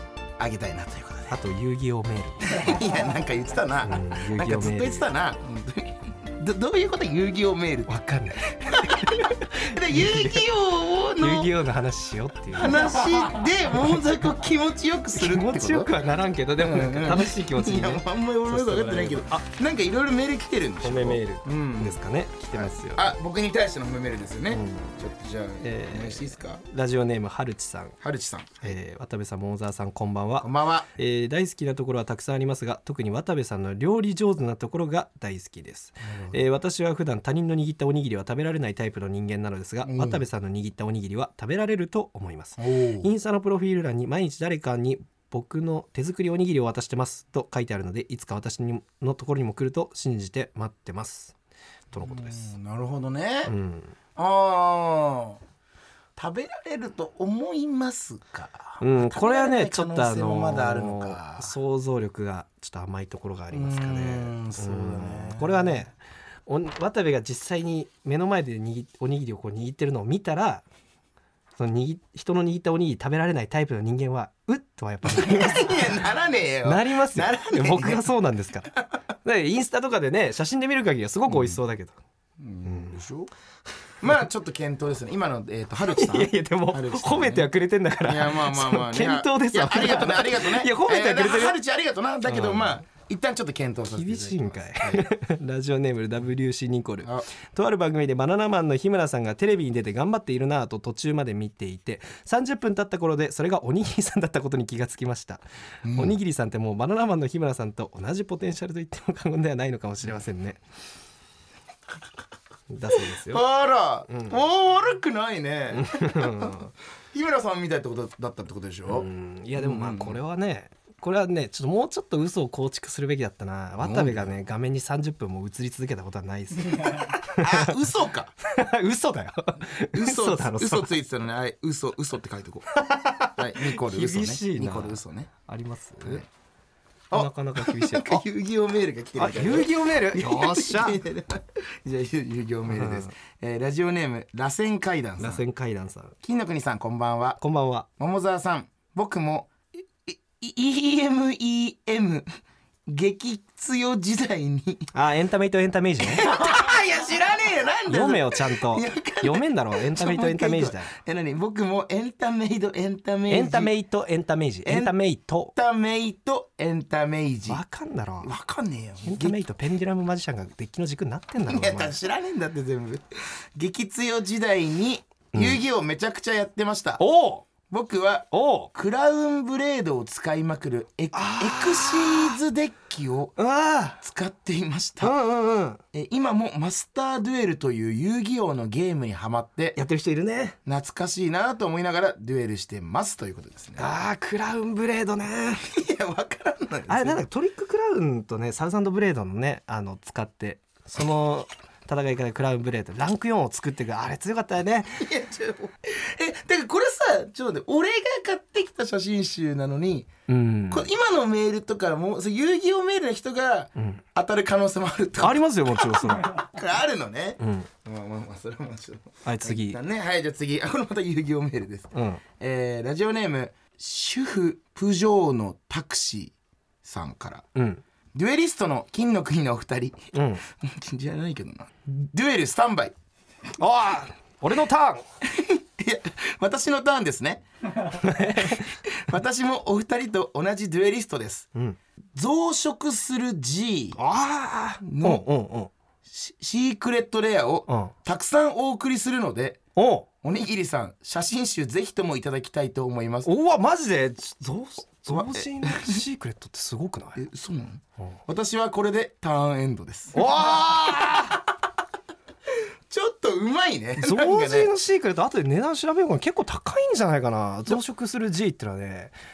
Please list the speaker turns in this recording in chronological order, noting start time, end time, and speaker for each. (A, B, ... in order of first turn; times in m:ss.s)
0:00.4-0:01.4 A
0:01.3-0:02.8 B
0:02.5-0:11.5 A
0:03.8-0:05.1 B
0:07.9-0:10.5 B
0:11.2-0:13.2 B
0:12.5-0:15.9 A
0:15.1-0:19.4 B
0:16.6-0:22.0 A
0:20.8-0:23.1 B
0:22.5-0:26.6 A
0:24.5-0:25.0 B
0:25.6-0:28.0 B
0:28.0-0:28.7 A
0:28.6-0:51.3 B
0:30.4-0:30.9 A
0:36.0-0:36.4 A
0:39.8-0:40.2 A
0:42.6-0:43.1 A
0:51.9-0:52.5 B
0:51.9-0:53.5 A
0:53.5-0:53.9 B
0:54.2-0:55.4 A
0:56.2-1:01.5 A
0:58.8-1:05.9 B
1:03.5-1:05.8 A
1:06.5-1:10.6 B
1:11.6-1:16.0 B
1:15.1-1:18.1 A
1:16.6-1:22.0 B
1:21.3-1:21.6 A
1:22.4-1:23.3 A
1:22.6-1:23.0 B
1:24.0-1:35.1 A
1:25.9-1:31.6 B
1:32.2-1:32.8 B
1:33.9-1:45.4 B
1:45.8-1:46.2 A
1:45.9-1:50.6 B
1:52.7-1:53.4 B
1:52.9-1:59.0 A
1:54.1-1:54.4 B
1:55.7-1:56.7 B
1:58.9-2:07.7 B
1:59.6-2:00.2 A
2:03.8-2:04.3 A
2:07.4-2:08.3 A
2:08.5-2:10.9 B
2:09.9-2:12.7 A
2:12.7-2:16.2 B
2:13.3-2:15.3 A
2:17.1-2:25.4 A
2:17.1-2:18.2 B
2:19.2-2:21.0 B
2:22.7-2:23.1 B
2:25.2-2:26.1 B
2:26.2-2:27.4 A
2:27.4-2:27.8 B
2:28.0-2:29.5 A
2:30.0-2:32.3 A
2:32.9-2:34.9 A
2:34.9-2:36.3 B
2:36.0-2:43.7 A
2:37.9-2:40.9 B
2:43.3-2:45.5 B
2:44.6-2:44.9 A
2:45.5-2:47.6 A
2:47.5-2:48.3 B
2:48.2-2:49.4 A
2:49.0-2:52.0 B
2:51.4-2:57.0 A
2:55.3-2:55.6 B
2:57.0-2:57.4 B
2:57.7-3:03.3 A
2:58.3-2:58.7 B
3:01.1-3:02.4 B
3:03.4-3:04.0 B
3:04.0-3:05.2 A
3:05.0-3:05.8 B
3:05.9-3:09.8 A
3:09.8-3:10.6 B
3:10.6-3:13.9 A
3:13.8-3:15.6 B
3:15.6-3:17.2 A
3:16.9-3:25.0 B
3:25.0-3:30.1 A
3:30.3-3:30.9 B
3:30.7-3:47.5 A
3:33.8-3:34.0 B
3:35.2-3:36.4 B
3:37.4-3:37.7 B
3:39.2-3:39.8 B
3:41.9-3:42.2 B
3:47.5-3:47.8 B
3:48.1-3:52.9 A
3:50.1-3:50.4 B
3:53.6-3:55.0 B
3:55.2-4:01.5 A
3:57.8-3:58.7 B
4:02.1-4:04.0 A
4:04.0-4:05.7 B
4:04.8-4:05.3 A
4:06.1-4:09.6 A
4:07.7-4:07.9 B
4:09.8-4:10.1 B
4:10.2-4:13.3 A
4:13.2-4:17.3 B
4:15.1-4:16.0 A
4:17.2-4:20.3 A
4:20.1-4:21.4 B
4:22.9-4:24.7 A
4:24.0-4:29.1 B